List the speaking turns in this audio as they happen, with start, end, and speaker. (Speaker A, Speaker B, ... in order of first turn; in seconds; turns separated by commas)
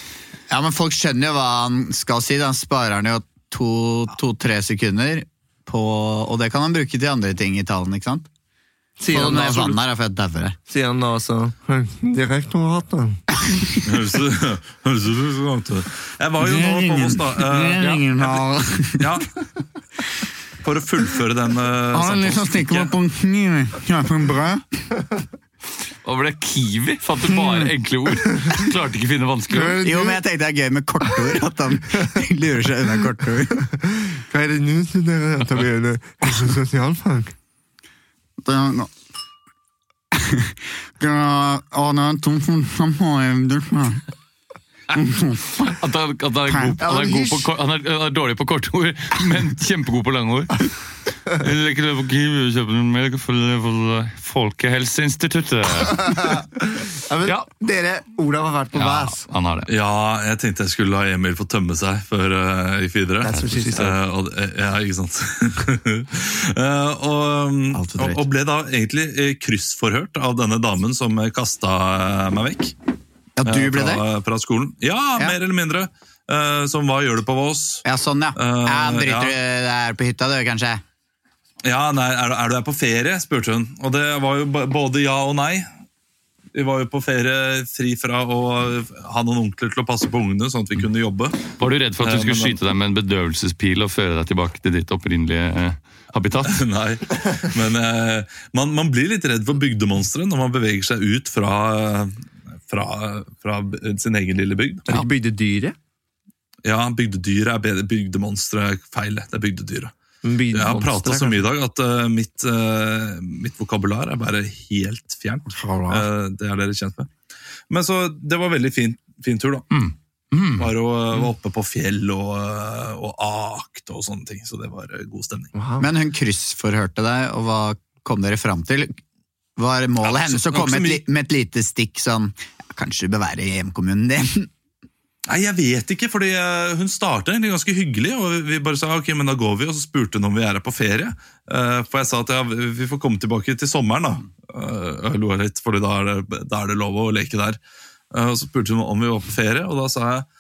Speaker A: 0.5-8.3, Speaker B: 9.0-9.8, Speaker A: 9.1-10.6, Speaker B: 10.7-13.2, Speaker A: 13.5-13.8, Speaker C: 13.8-18.4, Speaker A: 16.4-19.2, Speaker D: 17.8-18.0, Speaker C: 19.0-19.3, Speaker C: 20.6-22.9, Speaker A: 21.9-24.8, Speaker D: 26.0-29.8, Speaker A: 27.3-27.7, Speaker B: 29.5-30.2, Speaker A: 29.8-33.6, Speaker B: 33.6-37.3, Speaker A: 38.4-38.9, Speaker A: 40.1-44.0, Speaker A: 44.9-45.7, Speaker D: 45.6-50.7, Speaker A: 46.5-47.4, Speaker B: 46.9-47.3, Speaker D: 51.3-56.4, Speaker B: 55.9-59.2, Speaker D: 58.7-59.7, Speaker C: 59.7-72.7, Speaker B: 63.2-64.0, Speaker D: 63.3-63.9, Speaker A: 67.7-68.3, Speaker A: 73.4-74.0, Speaker C: 73.4-79.4, Speaker A: 77.8-80.8, Speaker C: 81.6-85.7, Speaker C: 86.5-92.6, Speaker D: 91.6-96.6, Speaker C: 96.5-104.9, Speaker B: 104.9-105.8, Speaker C: 106.6-109.9, Speaker B: 110.2-111.5, Speaker C: 110.5-117.1, Speaker A: 115.5-116.1, Speaker C: 117.7-119.7, Speaker D: 119.7-120.7, Speaker C: 120.6-125.5, Speaker B: 125.5-125.9, Speaker A: 125.8-129.0, Speaker A: 129.6-134.5, Speaker C: 130.0-131.0, Speaker C: 135.3-147.6, Speaker C: 148.1-150.2